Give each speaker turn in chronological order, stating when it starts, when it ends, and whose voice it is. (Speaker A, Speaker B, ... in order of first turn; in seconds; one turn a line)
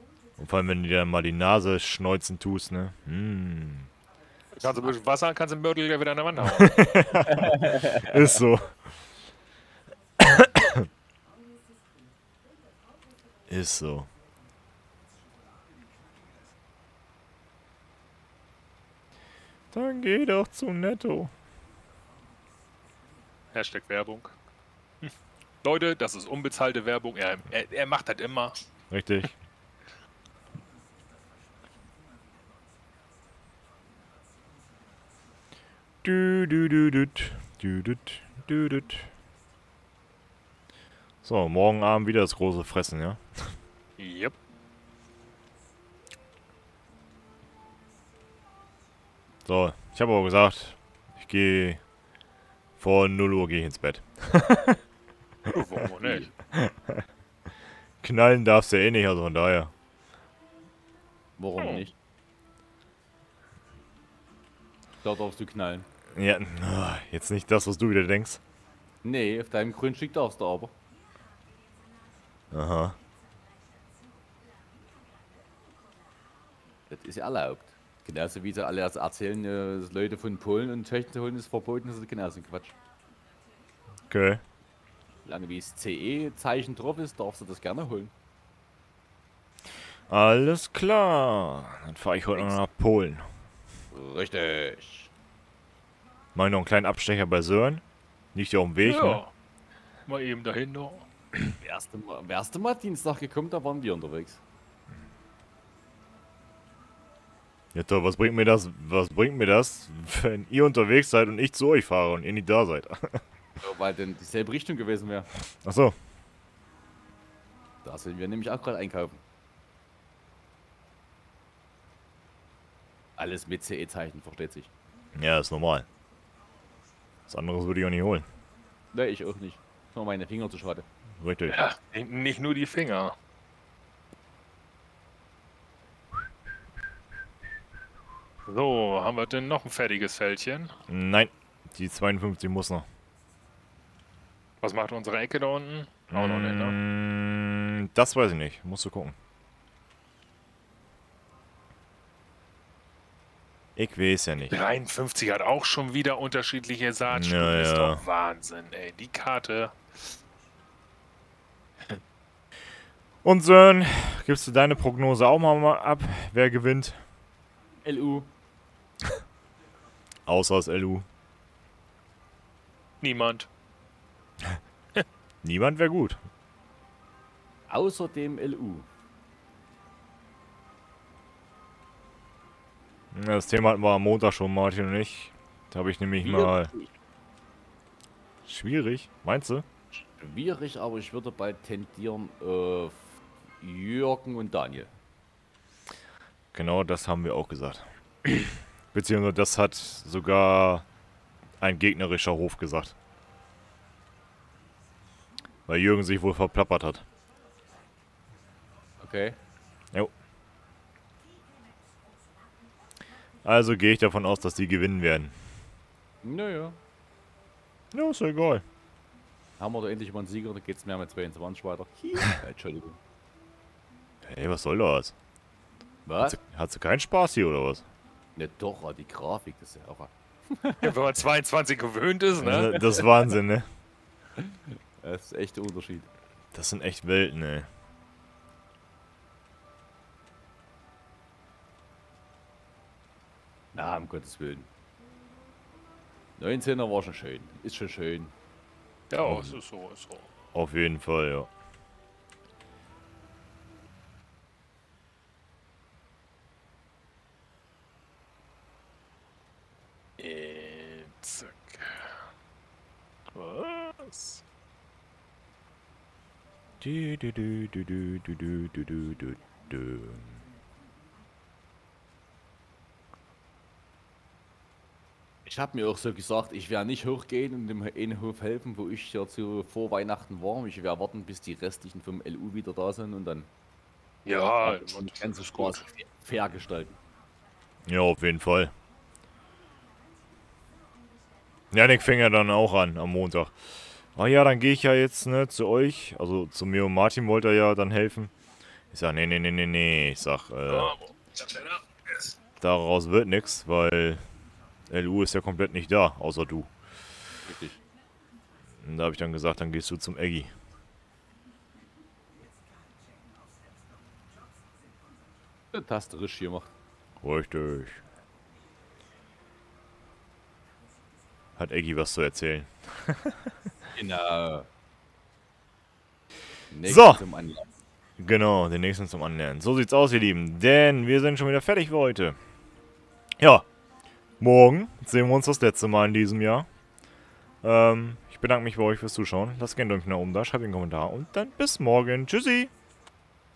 Speaker A: 0.4-3.9
Speaker B: 4.5-7.0
Speaker A: 6.4-8.7
Speaker C: 7.3-8.4
Speaker A: 10.2-10.8
Speaker A: 13.5-14.1
Speaker A: 19.7-21.3
Speaker B: 23.5-24.3
Speaker B: 25.6-28.5
Speaker A: 28.9-29.3
Speaker A: 36.0-39.1
Speaker A: 41.2-43.5
Speaker B: 44.0-44.3
Speaker A: 49.5-51.8
Speaker A: 52.8-54.8
Speaker B: 55.5-56.3
Speaker A: 56.5-57.0
Speaker A: 58.0-59.7
Speaker C: 61.4-61.9
Speaker B: 61.6-61.8
Speaker C: 65.0-65.9
Speaker A: 66.1-68.4
Speaker C: 69.0-70.7
Speaker A: 72.5-73.0
Speaker C: 76.9-82.7
Speaker A: 84.1-84.4
Speaker C: 85.2-88.1
Speaker A: 90.1-93.2
Speaker C: 93.9-95.1
Speaker A: 96.3-97.8
Speaker A: 98.3-99.2
Speaker B: 98.8-99.3
Speaker B: 100.0-101.0
Speaker C: 101.6-104.4
Speaker A: 107.7-113.2
Speaker C: 113.6-115.3
Speaker A: 115.6-115.9
Speaker C: 117.8-119.2
Speaker C: 123.2-124.7
Speaker A: 125.1-125.8
Speaker A: 127.3-128.3
Speaker C: 128.9-130.8
Speaker A: 131.2-131.6
Speaker B: 131.5-133.1
Speaker B: 138.4-140.7
Speaker A: 140.9-142.8
Speaker B: 144.6-146.8
Speaker A: 146.1-149.1
Speaker A: 153.8-154.5
Speaker B: 154.5-159.8
Speaker A: 157.1-158.0
Speaker A: 163.2-167.0
Speaker C: 167.8-168.3
Speaker A: 170.2-171.1
Speaker B: 173.0-173.5
Speaker A: 175.4-176.2
Speaker C: 177.7-178.8
Speaker A: 183.1-186.7
Speaker C: 186.2-186.9
Speaker A: 188.4-189.6
Speaker C: 189.9-194.9
Speaker A: 196.5-200.8
Speaker A: 201.6-202.9
Speaker A: 205.7-207.0
Speaker C: 209.0-209.4
Speaker A: 213.4-215.3
Speaker C: 216.2-216.8
Speaker A: 217.9-218.6
Speaker C: 219.6-223.0
Speaker A: 224.2-225.1
Speaker C: 226.0-226.4
Speaker A: 226.2-227.8
Speaker C: 228.3-230.9
Speaker B: 230.8-232.9
Speaker A: 232.4-233.7
Speaker C: 232.7-233.1
Speaker C: 234.4-236.1
Speaker A: 236.5-237.7
Speaker C: 243.7-244.7
Speaker C: 246.4-248.3
Speaker B: 249.1-250.3
Speaker A: 249.1-249.6
Speaker A: 250.5-251.5
Speaker B: 260.2-262.0
Speaker B: 263.3-264.4
Speaker A: 266.8-270.4
Speaker C: 275.4-283.5
Speaker B: 284.2-285.8
Speaker C: 284.6-287.0
Speaker A: 287.9-288.7
Speaker A: 291.7-298.3
Speaker A: 298.9-300.9
Speaker B: 300.7-302.4
Speaker A: 302.6-304.2
Speaker A: 304.9-306.7
Speaker C: 307.4-307.8
Speaker A: 308.8-310.5
Speaker C: 315.7-316.7
Speaker A: 317.2-318.0
Speaker A: 321.6-323.4
Speaker C: 323.9-324.7
Speaker C: 326.7-327.7
Speaker A: 326.8-327.2
Speaker A: 328.2-332.4
Speaker A: 333.4-333.6
Speaker A: 334.4-336.7
Speaker A: 337.6-342.7